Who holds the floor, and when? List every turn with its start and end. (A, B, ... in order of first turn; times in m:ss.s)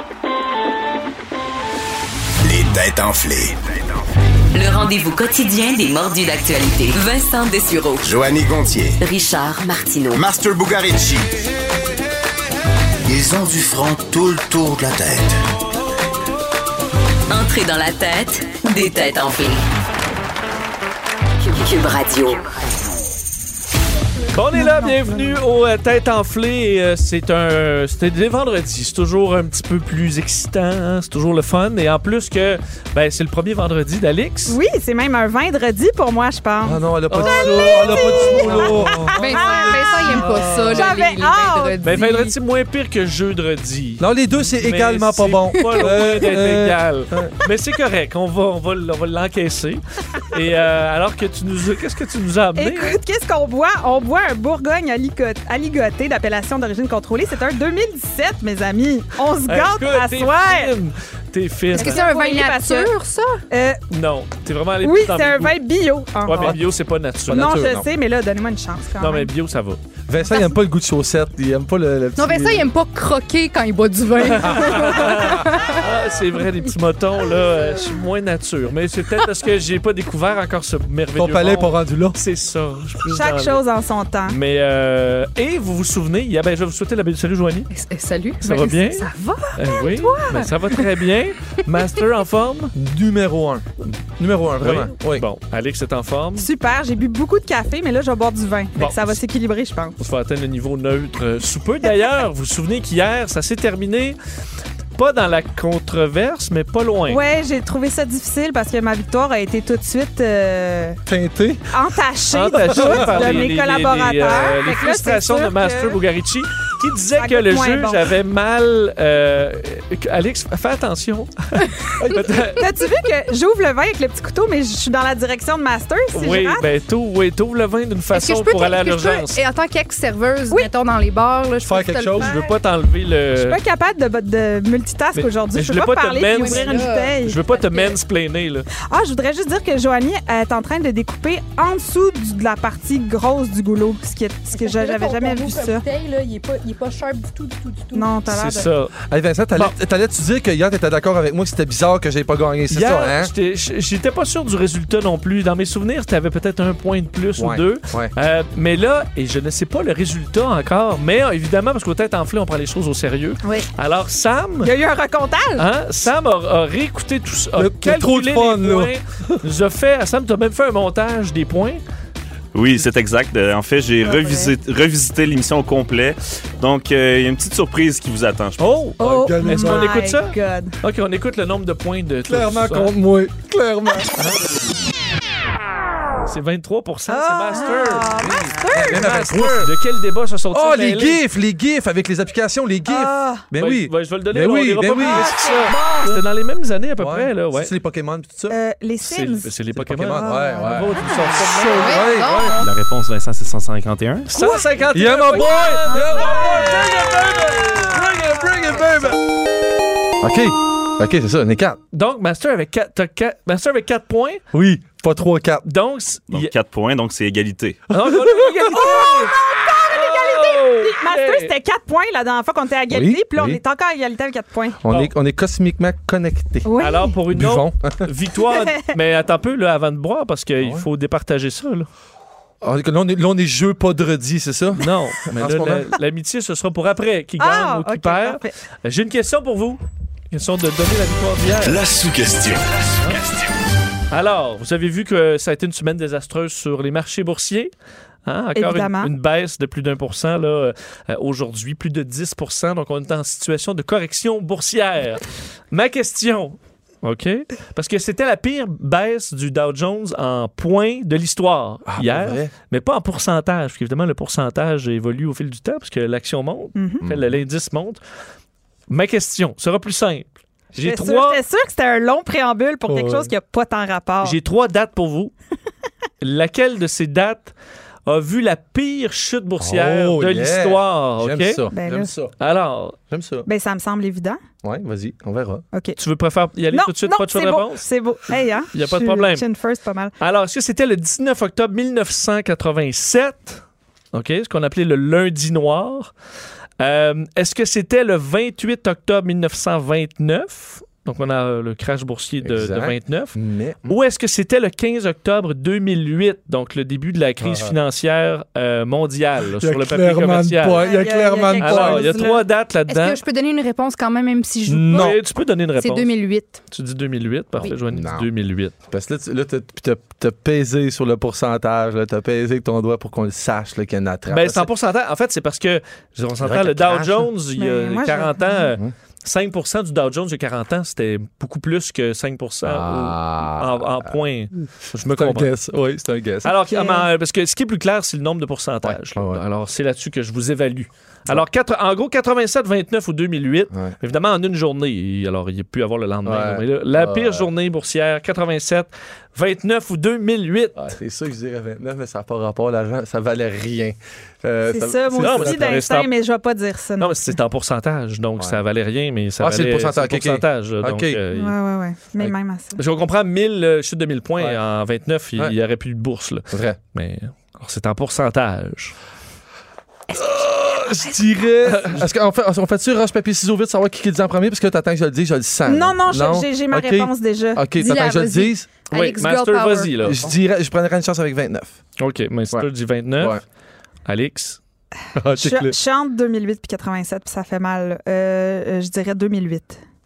0:02.4-0:03.6 A
0:04.5-0:08.1 B
0:08.0-0:09.0 A
0:09.0-0:10.2 B
0:10.1-0:11.3 A
0:13.0-0:15.4 A
0:17.3-0:19.6 B
0:21.4-0:22.4 B
0:24.3-0:34.6 C
0:24.5-0:25.3 D
0:34.5-0:42.1 D
0:36.6-0:39.1 E
0:37.1-0:40.9 C
0:39.2-0:42.3 F
0:41.8-0:53.0 C
0:44.0-0:47.4 E
0:52.6-1:00.7 D
0:59.4-1:02.0 C
1:01.7-1:02.9 D
1:01.7-1:03.4 F
1:03.5-1:03.8 D
1:03.9-1:05.5 C
1:04.8-1:06.6 D
1:06.2-1:07.7 C
1:06.3-1:06.6 E
1:07.3-1:07.9 E
1:07.3-1:09.3 D
1:09.0-1:09.8 C
1:10.1-1:12.7 E
1:12.2-1:15.8 F
1:14.2-1:23.6 C
1:21.2-1:22.2 E
1:23.1-1:24.4 D
1:24.3-1:27.7 C
1:27.7-1:30.5 F
1:28.4-1:32.7 C
1:32.7-1:33.6 E
1:34.2-1:35.2 E
1:34.6-1:36.5 C
1:36.4-1:40.0 D
1:38.8-1:39.2 C
1:40.0-1:44.2 C
1:45.0-1:47.2 C
1:47.1-1:51.0 D
1:51.0-1:51.6 E
1:51.7-1:56.0 D
1:52.3-2:02.6 C
1:52.7-1:53.5 E
1:57.2-1:58.1 D
2:02.0-2:02.5 E
2:02.6-2:06.7 D
2:06.1-2:09.4 C
2:08.1-2:12.3 F
2:11.6-2:12.4 E
2:12.2-2:13.6 C
2:13.4-2:17.4 D
2:15.1-2:18.7 C
2:16.3-2:18.0 F
2:18.9-2:25.8 D
2:24.5-2:28.1 F
2:27.9-2:28.7 D
2:28.3-2:28.9 C
2:29.1-2:33.3 E
2:32.7-2:44.7 C
2:37.4-2:38.1 E
2:44.6-2:45.6 D
2:45.6-2:51.8 C
2:47.6-2:49.4 E
2:52.5-2:58.7 G
2:54.0-2:54.5 D
2:58.6-3:02.9 C
2:59.0-2:59.9 E
2:59.0-3:00.7 D
3:02.3-3:04.4 E
3:06.2-3:11.2 C
3:07.1-3:09.1 D
3:08.1-3:09.7 E
3:10.5-3:15.3 E
3:12.9-3:13.4 D
3:13.5-3:17.7 C
3:15.0-3:16.2 D
3:17.0-3:18.6 E
3:18.5-3:19.5 D
3:19.0-3:22.2 C
3:19.7-3:20.9 E
3:20.1-3:22.0 D
3:21.8-3:22.7 F
3:21.9-3:22.6 E
3:22.6-3:24.3 G
3:24.2-3:27.7 C
3:24.4-3:24.7 D
3:24.9-3:29.2 E
3:25.3-3:28.0 D
3:30.2-3:31.8 E
3:31.9-3:34.4 C
3:34.5-3:35.6 E
3:35.6-3:36.5 C
3:36.3-3:37.9 G
3:37.9-3:39.4 C
3:38.1-3:38.4 E
3:38.6-3:44.8 D
3:39.9-3:41.5 C
3:42.9-3:43.6 E
3:44.8-3:48.1 E
3:46.6-3:47.1 D
3:46.8-3:51.9 C
3:48.5-3:48.8 D
3:50.6-3:50.8 E
3:52.6-3:55.9 E
3:54.8-4:01.8 C
3:57.4-3:58.5 D
4:01.6-4:02.8 A
4:04.1-4:07.7 C
4:08.2-4:28.0 C
4:08.5-4:09.1 D
4:21.9-4:22.5 E
4:26.8-4:27.0 D
4:27.0-4:27.4 E
4:28.9-4:31.4 C
4:30.8-4:34.4 D
4:32.9-4:33.3 E
4:34.2-4:35.3 C
4:36.2-4:37.5 C
4:38.0-4:41.6 C
4:39.6-4:42.3 E
4:41.7-4:42.1 D
4:42.4-4:43.0 C
4:43.1-4:43.5 E
4:43.4-4:44.4 D
4:44.6-4:45.6 E
4:46.0-4:49.4 C
4:46.7-4:50.1 D
4:50.2-4:56.1 C
4:56.8-5:03.4 C
5:02.4-5:04.0 E
5:03.9-5:10.9 C
5:07.4-5:07.7 E
5:09.6-5:12.1 E
5:10.7-5:12.4 D
5:11.6-5:13.2 C
5:12.9-5:15.2 F
5:14.7-5:15.2 E
5:14.9-5:16.1 C
5:15.8-5:16.6 F
5:16.7-5:18.7 C
5:17.6-5:18.3 E
5:18.9-5:24.7 E
5:24.3-5:35.5 C
5:26.4-5:27.3 E
5:27.6-5:28.7 D
5:32.6-5:34.1 E
5:35.1-5:36.6 E
5:36.4-5:50.9 C
5:36.6-5:37.1 D
5:38.8-5:39.4 E
5:46.2-5:47.5 E
5:50.8-5:55.7 E
5:54.7-5:57.4 D
5:55.2-5:56.1 C
5:57.0-6:01.6 C
5:59.4-6:01.2 E
6:01.3-6:02.8 D
6:02.2-6:09.0 C
6:06.5-6:06.8 E
6:10.1-6:18.7 E
6:11.6-6:12.1 C
6:15.6-6:17.7 D
6:17.8-6:20.3 F
6:18.9-6:20.2 C
6:20.0-6:21.7 E
6:22.0-6:23.4 C
6:24.1-6:24.6 C
6:25.2-6:25.7 E
6:25.4-6:29.8 D